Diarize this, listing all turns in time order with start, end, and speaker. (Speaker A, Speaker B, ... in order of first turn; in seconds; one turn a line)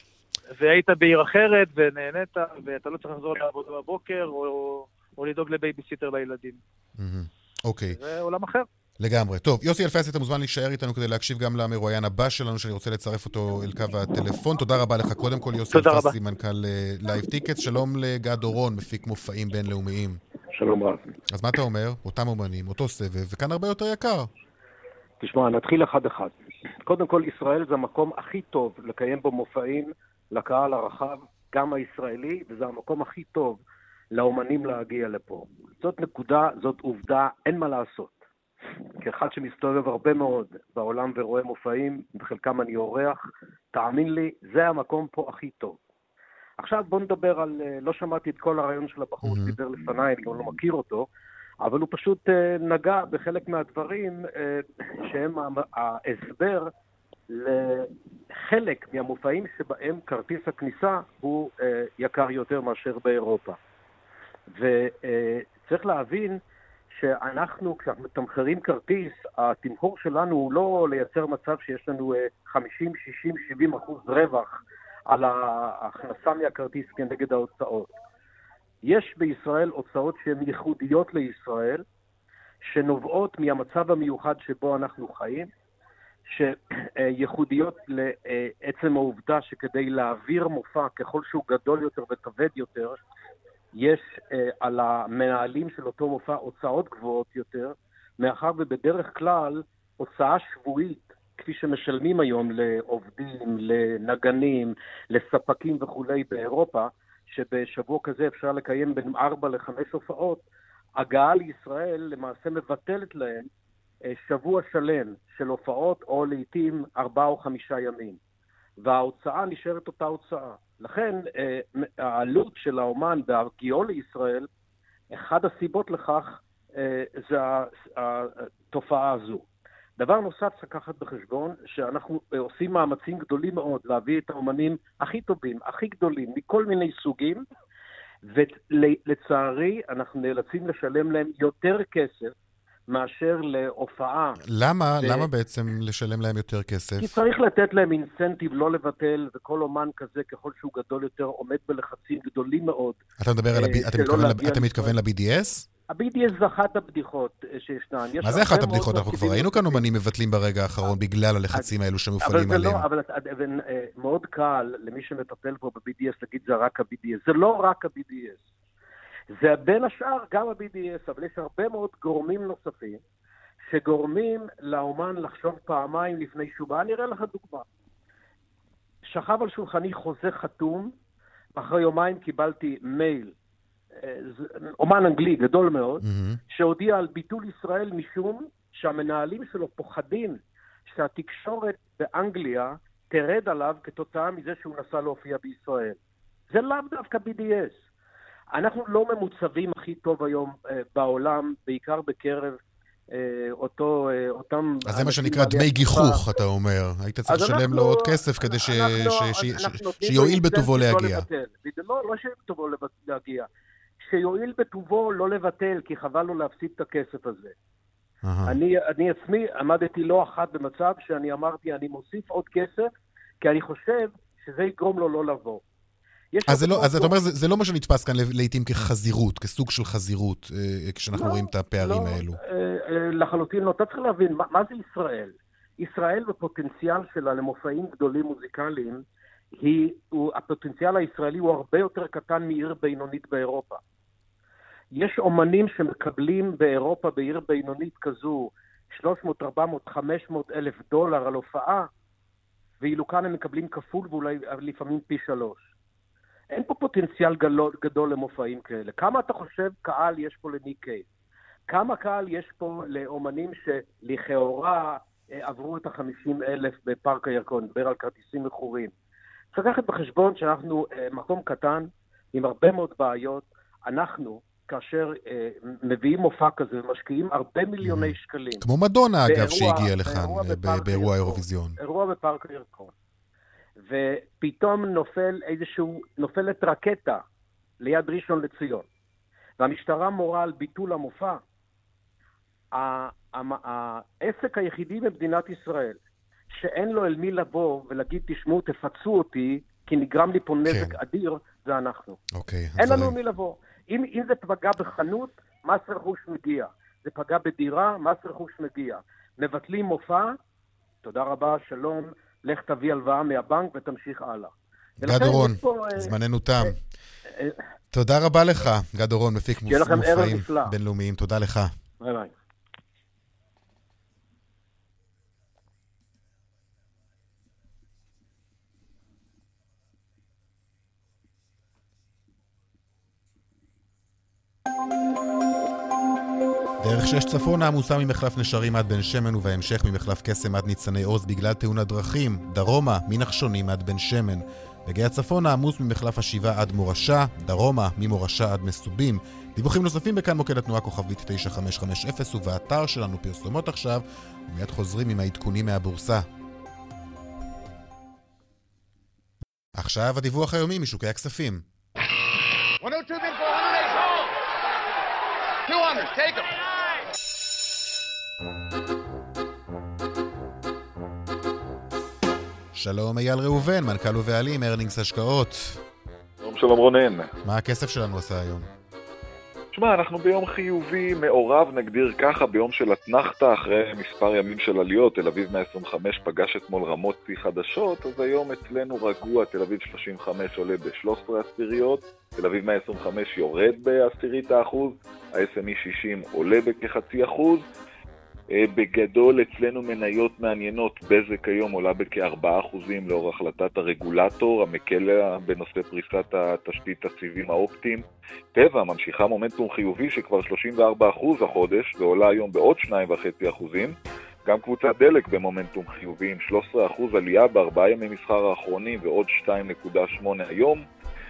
Speaker A: 0.6-6.6
Speaker B: 7.0-8.0
Speaker A: 7.9-8.7
Speaker B: 9.0-20.2
Speaker A: 15.7-16.1
Speaker C: 20.5-21.0
Speaker B: 21.3-24.3
Speaker C: 25.2-33.6
Speaker C: 34.1-38.2
Speaker C: 39.0-43.2
Speaker C: 43.7-45.8
Speaker C: 46.6-51.1
Speaker B: 49.2-49.5
Speaker C: 51.6-56.7
Speaker C: 57.3-63.6
Speaker C: 64.5-74.6
Speaker C: 75.1-77.9
Speaker C: 78.8-81.8
Speaker C: 82.7-85.5
Speaker C: 86.3-93.0
Speaker C: 93.7-110.4
Speaker C: 111.0-113.5
Speaker C: 114.1-118.2
Speaker C: 118.8-124.5
Speaker C: 125.1-129.4
Speaker C: 130.0-137.4
Speaker C: 138.3-142.3
Speaker C: 142.9-144.4
Speaker B: 144.4-147.2
Speaker C: 145.0-145.3
Speaker C: 147.0-153.0
Speaker B: 153.2-155.7
Speaker C: 153.5-154.9
Speaker C: 155.9-159.9
Speaker B: 158.2-162.8
Speaker C: 162.2-168.5
Speaker C: 169.3-173.0
Speaker C: 173.7-177.6
Speaker C: 179.1-180.9
Speaker C: 181.6-183.3
Speaker C: 184.0-196.0
Speaker B: 186.0-186.4
Speaker C: 196.5-197.8
Speaker C: 198.5-202.6
Speaker C: 203.1-206.2
Speaker B: 204.8-211.2
Speaker C: 207.3-213.5
Speaker C: 214.0-217.5
Speaker B: 218.2-218.6
Speaker C: 218.5-222.9
Speaker C: 223.4-225.6
Speaker C: 226.3-227.1
Speaker B: 226.4-232.4
Speaker C: 231.1-239.0
Speaker C: 239.5-243.8
Speaker C: 244.9-251.9
Speaker C: 252.8-255.6
Speaker C: 256.5-261.0
Speaker C: 261.7-268.9
Speaker C: 269.5-278.6
Speaker B: 277.8-281.8
Speaker C: 279.2-282.9
Speaker C: 283.8-287.2
Speaker C: 287.8-288.8
Speaker C: 289.6-291.4
Speaker C: 292.7-296.0
Speaker C: 296.5-302.2
Speaker B: 300.7-301.0
Speaker B: 302.3-303.1
Speaker C: 302.8-310.4
Speaker C: 311.0-316.7
Speaker B: 315.0-316.8
Speaker C: 317.3-317.6
Speaker B: 317.9-321.7
Speaker C: 319.7-320.7
Speaker C: 322.0-322.3
Speaker B: 336.8-356.2
Speaker B: 359.7-361.6
Speaker B: 372.7-375.8
Speaker D: 376.4-377.3
Speaker B: 377.4-378.7
Speaker D: 379.7-397.6
Speaker D: 398.5-413.9
Speaker D: 414.4-420.8